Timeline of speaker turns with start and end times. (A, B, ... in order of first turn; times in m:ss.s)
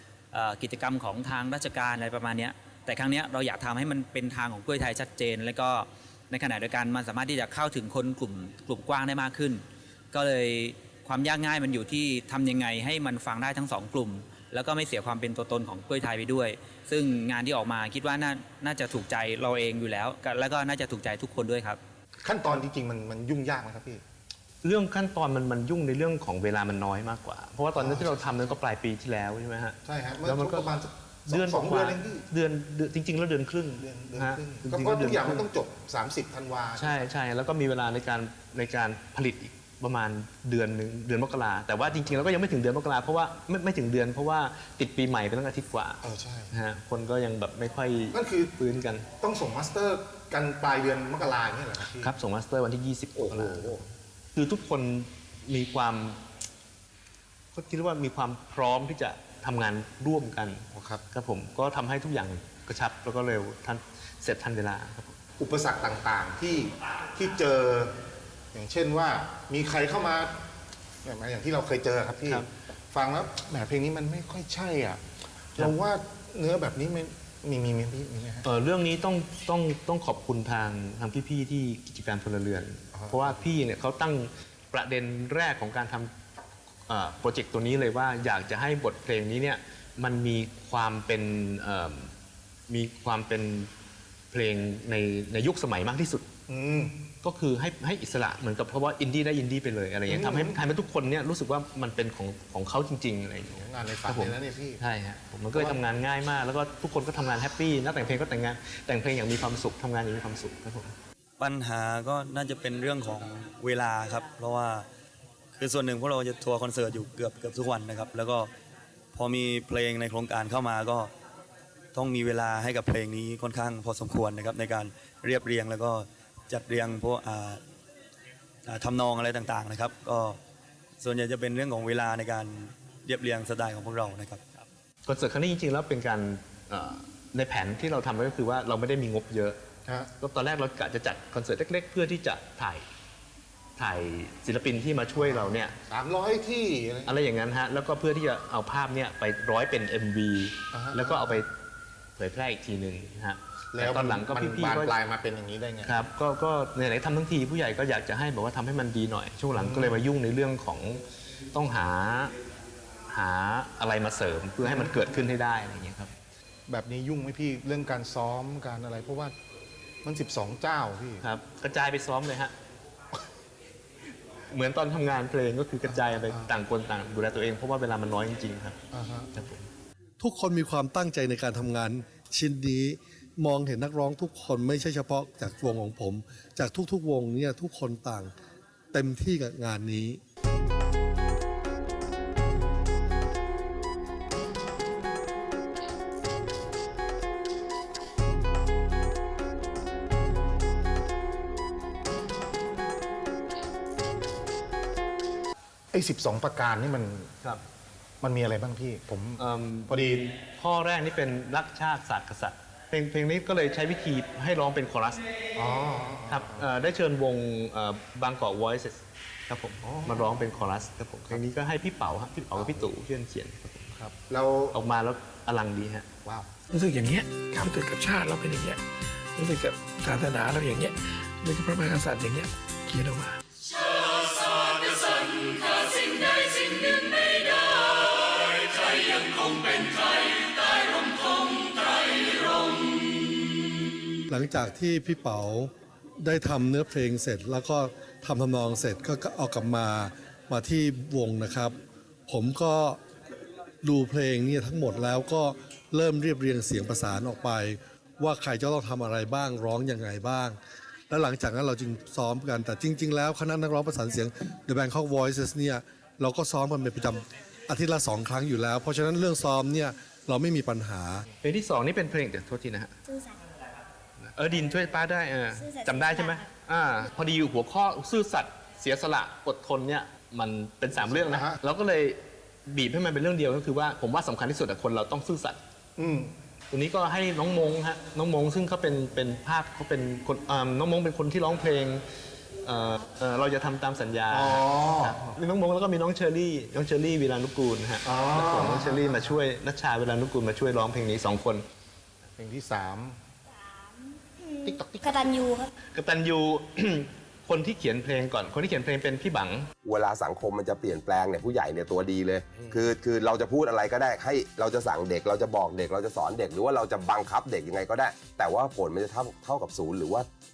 0:00.3-0:21.8 A
0:22.2-0:24.0 B
0:24.6-0:35.5 C
0:27.8-0:28.5 B
0:29.8-0:32.2 B
0:33.8-0:37.1 B
0:36.8-0:49.1 C
0:46.0-0:46.5 B
0:48.1-0:48.5 B
0:49.2-0:52.1 B
0:51.9-0:56.2 C
0:53.2-0:53.8 B
0:57.5-1:05.2 C
1:00.7-1:01.0 B
1:05.4-1:07.9 B
1:08.5-1:10.4 B
1:11.0-1:15.0 B
1:15.6-1:18.4 B
1:18.4-1:26.1 C
1:22.9-1:23.4 B
1:26.9-1:32.1 C
1:32.7-1:33.7 C
1:34.3-1:36.3 C
1:36.5-1:37.0 B
1:37.2-1:51.0 C
1:40.1-1:40.6 B
1:43.5-1:44.8 B
1:45.5-1:45.8 B
1:51.4-1:54.9 D
1:55.6-1:58.5 D
1:59.1-2:01.1 D
2:01.9-2:07.6 D
2:08.7-2:10.4 D
2:11.0-2:14.6 D
2:15.0-2:19.6 C
2:19.8-2:20.1 B
2:20.2-2:22.9 C
2:23.8-2:25.7 C
2:25.2-2:27.1 B
2:27.0-2:31.5 C
2:30.7-2:31.4 B
2:32.2-2:35.0 C
2:33.7-2:36.1 B
2:35.8-2:42.3 C
2:39.6-2:40.0 B
2:43.1-2:46.2 C
2:44.6-2:45.1 B
2:46.7-2:49.4 B
2:50.0-2:51.2 B
2:51.2-2:52.5 C
2:54.5-2:58.8 C
2:55.8-2:56.5 B
2:58.9-2:59.3 B
2:59.3-2:59.7 C
3:00.2-3:08.3 E
3:08.9-3:10.2 E
3:25.9-3:27.3 B
3:28.2-3:30.2 B
3:29.4-3:35.2 C
3:35.6-3:36.7 B
3:36.3-3:44.0 C
3:39.8-3:40.6 B
3:42.6-3:42.9 B
3:44.0-3:44.8 B
3:44.7-3:46.1 C
3:46.2-3:46.5 B
3:46.8-3:48.8 F
3:49.4-3:53.4 F
3:54.4-3:55.0 F
3:55.6-3:57.4 F
3:59.2-3:59.9 F
4:04.3-4:11.8 E
4:12.3-4:13.0 E
4:13.8-4:20.6 E
4:21.1-4:31.3 E
4:31.4-4:33.0 C
4:33.1-4:33.4 G
4:34.3-4:45.6 C
4:35.5-4:36.5 G
4:40.9-4:41.6 B
4:46.0-4:46.4 B
4:46.7-4:52.0 C
4:52.6-5:01.6 C
4:54.3-4:55.2 B
4:58.0-4:59.4 B
5:02.4-5:03.2 B
5:03.6-5:05.7 G
5:04.7-5:05.3 B
5:05.9-5:09.7 C
5:09.8-5:20.3 H